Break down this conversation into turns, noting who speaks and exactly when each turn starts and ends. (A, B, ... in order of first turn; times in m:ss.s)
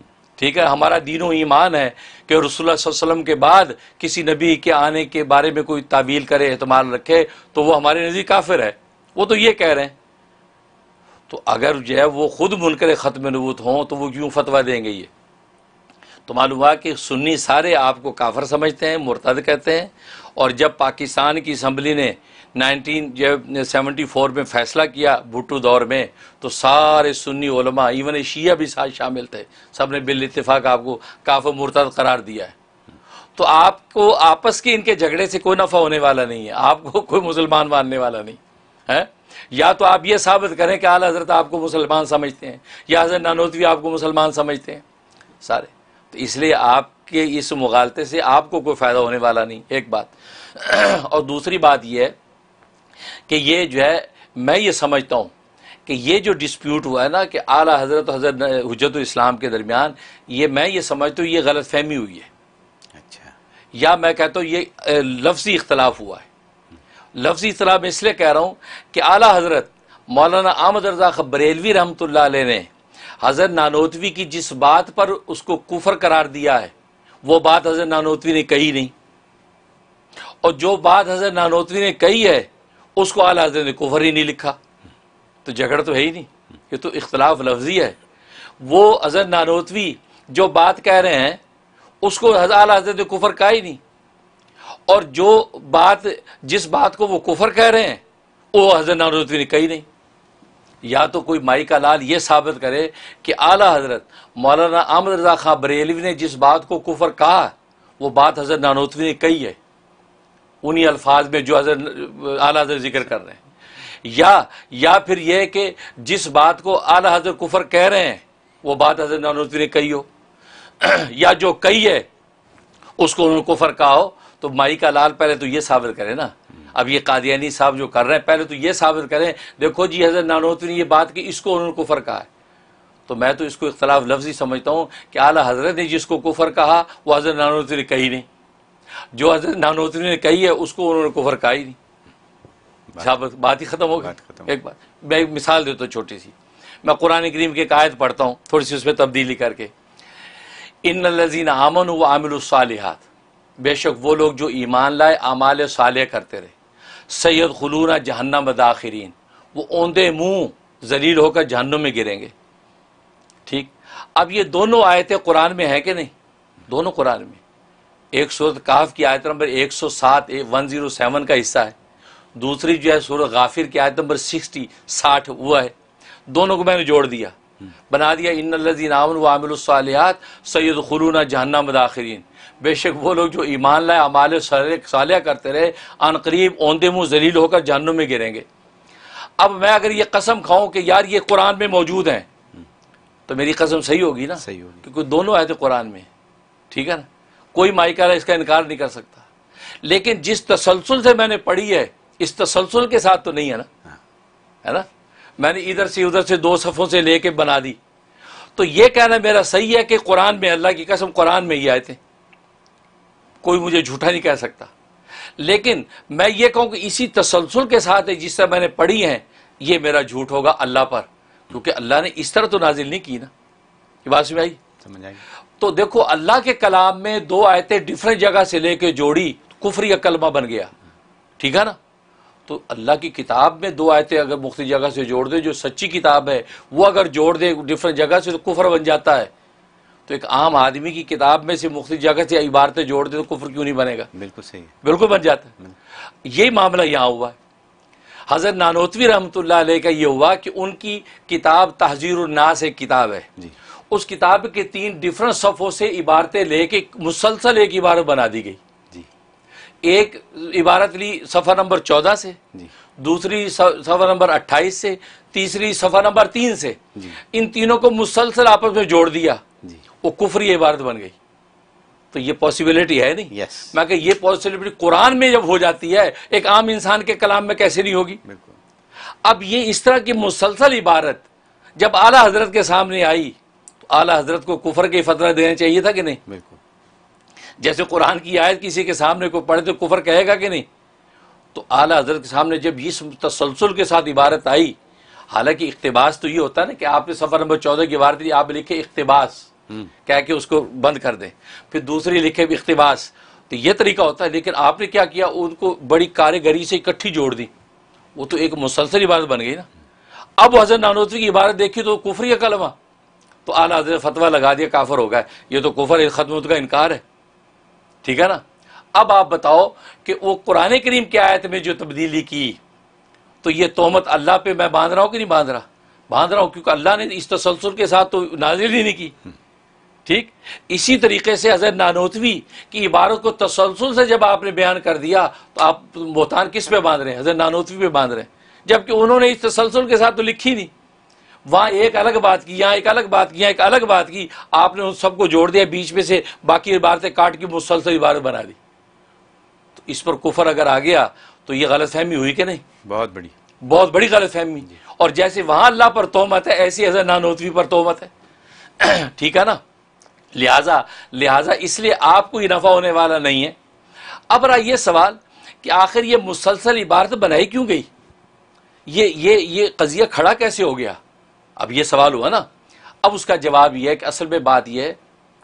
0:00.4-0:09.9 A
0:11.3-0:15.1 A
0:16.3-0:32.6 A
0:33.4-0:44.8 A
0:45.4-0:52.1 A
0:53.3-0:55.3 A
0:55.8-1:02.3 A
1:02.9-1:03.3 B
1:03.7-1:06.3 A
1:07.2-1:12.7 A
1:13.2-1:16.7 A
1:17.2-1:18.9 A
1:20.4-1:24.6 A
1:25.4-1:28.0 A
1:28.6-1:31.4 A
1:32.0-1:33.8 A
1:34.9-1:38.0 A
1:38.5-1:39.8 A
1:40.8-1:49.6 A
1:50.6-1:53.4 A
1:54.0-2:00.1 A
2:00.8-2:02.0 A
2:03.0-2:12.3 A
2:13.1-2:18.3 A
2:19.1-2:21.8 A
2:23.0-2:29.7 A
2:24.0-2:24.5 B
2:30.8-2:33.0 A
2:33.6-2:36.5 A
2:37.1-2:42.3 A
2:43.5-2:46.1 A
2:46.7-2:47.4 A
2:48.1-2:51.7 A
2:52.4-2:55.7 A
2:56.3-2:57.3 A
2:57.9-3:08.4 A
3:09.4-3:12.3 A
3:13.3-3:16.1 A
3:14.4-3:14.8 B
3:16.7-3:19.3 A
3:19.8-3:23.7 A
3:25.4-3:27.8 A
3:28.6-3:32.0 A
3:33.4-3:34.7 A
3:35.4-3:43.3 A
3:44.0-3:44.6 A
3:44.8-3:45.2 B
3:45.6-3:50.7 A
3:51.4-3:51.8 A
3:52.5-3:59.3 A
4:00.1-4:04.1 A
4:04.1-4:04.8 B
4:04.8-4:05.5 A
4:06.2-4:07.4 A
4:08.3-4:13.3 A
4:13.9-4:18.6 A
4:19.8-4:22.4 A
4:23.0-4:26.8 A
4:27.3-4:29.4 A
4:30.0-4:31.1 A
4:32.1-4:38.2 A
4:33.3-4:33.8 B
4:38.2-4:38.6 B
4:39.2-4:41.2 A
4:41.8-4:46.2 A
4:46.2-4:46.6 B
4:47.6-4:50.6 A
4:51.5-4:54.8 A
4:55.3-4:59.5 A
5:00.0-5:07.5 A
5:08.2-5:09.7 A
5:10.4-5:12.8 A
5:13.5-5:17.0 A
5:18.0-5:18.4 A
5:18.9-5:22.6 A
5:23.4-5:29.1 A
5:30.0-5:40.7 A
5:41.5-5:48.6 A
5:49.8-5:52.6 A
5:52.8-5:53.3 B
5:53.6-5:58.1 A
5:58.8-5:59.6 A
6:00.3-6:03.6 A
6:04.3-6:07.9 A
6:08.9-6:11.0 A
6:11.6-6:12.5 A
6:13.0-6:15.0 A